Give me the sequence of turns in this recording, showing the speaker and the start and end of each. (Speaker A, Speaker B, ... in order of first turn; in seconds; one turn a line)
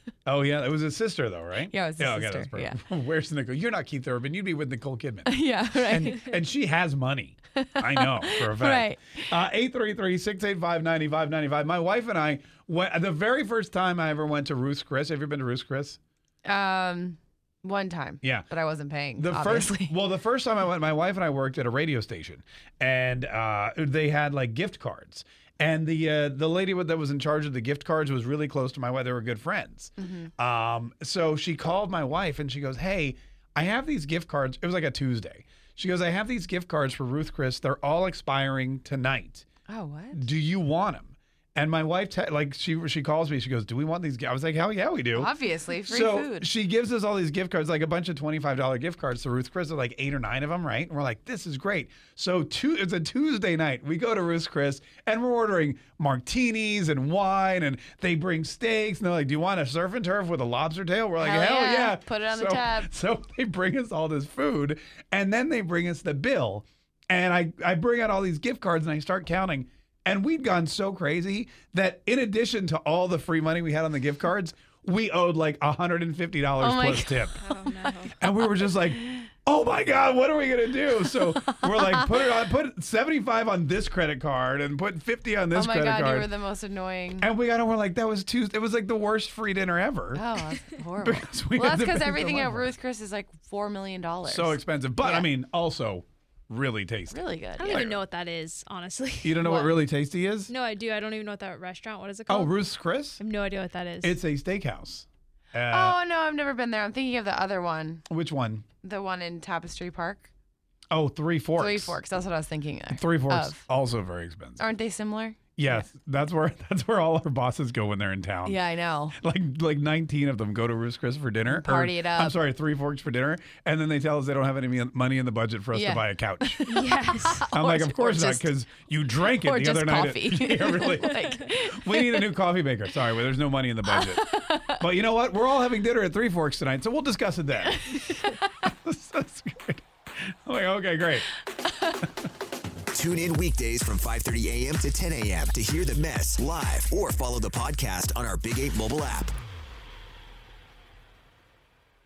Speaker A: 0.2-16.0
Speaker B: 1.7-2.8
Speaker B: 5.3-6.3
Speaker B: 7.6-9.2
Speaker B: 16.4-19.9
Speaker A: 18.2-18.5
Speaker A: 19.1-39.4
Speaker B: 30.0-30.3
Speaker B: 39.7-40.2
Speaker A: 40.1-45.3
Speaker B: 45.1-46.5
Speaker A: 45.9-77.3
Speaker B: 61.2-62.9
Speaker B: 76.6-78.1
Speaker C: 77.4-78.1
Speaker A: 78.2-86.3
Speaker B: 85.5-87.3
Speaker A: 87.2-90.2
Speaker B: 90.2-95.3
Speaker A: 91.0-92.7
Speaker A: 94.2-98.0
Speaker B: 97.1-97.8
Speaker C: 97.5-99.5
Speaker A: 99.2-100.5
Speaker B: 99.4-99.8
Speaker C: 100.5-104.2
Speaker A: 102.3-103.2
Speaker A: 104.0-106.0
Speaker B: 105.7-108.0
Speaker A: 108.1-108.7
Speaker B: 108.8-110.3
Speaker A: 110.9-112.0
Speaker B: 111.6-113.6
Speaker A: 112.9-114.6
Speaker B: 114.6-115.8
Speaker A: 115.5-126.6
Speaker B: 118.5-119.2
Speaker B: 121.5-122.3
Speaker B: 125.7-128.5
Speaker C: 126.7-127.7
Speaker A: 127.5-137.9
Speaker B: 129.3-132.2
Speaker B: 133.8-134.8
Speaker B: 137.9-138.4
Speaker A: 138.6-139.8
Speaker A: 140.4-141.3
Speaker D: 142.9-149.3